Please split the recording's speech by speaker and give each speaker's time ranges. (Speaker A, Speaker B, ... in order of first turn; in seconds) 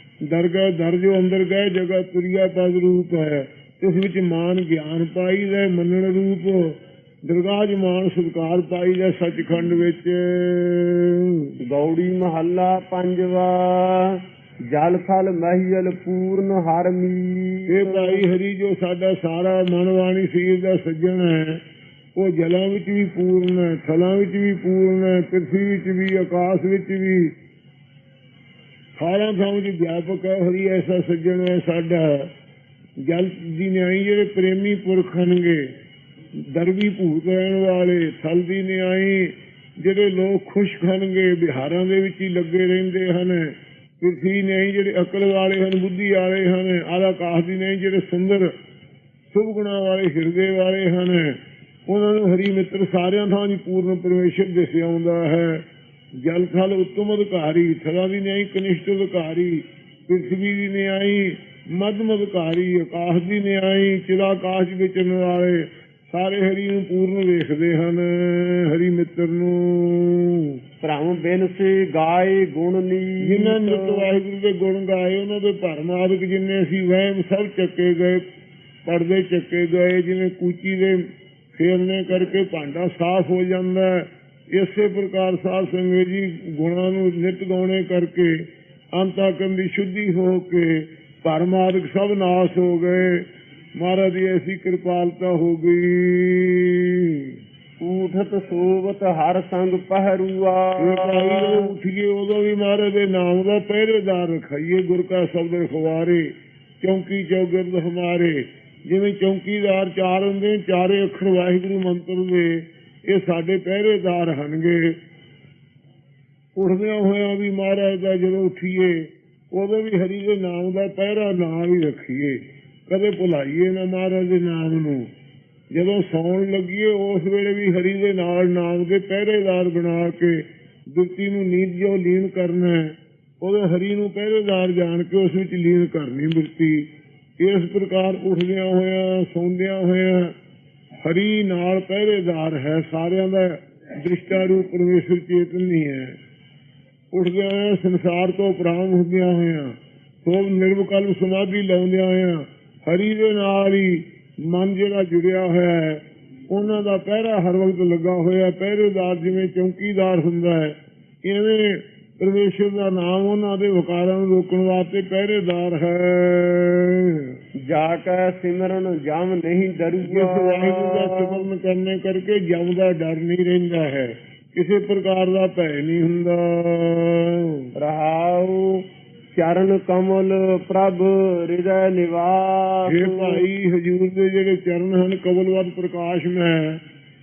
Speaker A: 0.2-11.5, 17.7-21.6, 22.1-27.4, 29.0-32.3, 33.0-35.6, 36.4-48.5, 49.3-55.6, 56.2-70.6, 73.2-78.2, 78.8-81.0, 81.5-97.4, 100.8-115.0, 116.6-125.1, 125.7-140.3, 141.0-146.2, 147.1-167.4, 170.0-177.7, 182.9-186.8
Speaker B: 11.7-18.3, 70.8-74.1, 97.8-101.8, 167.6-171.5, 177.8-183.4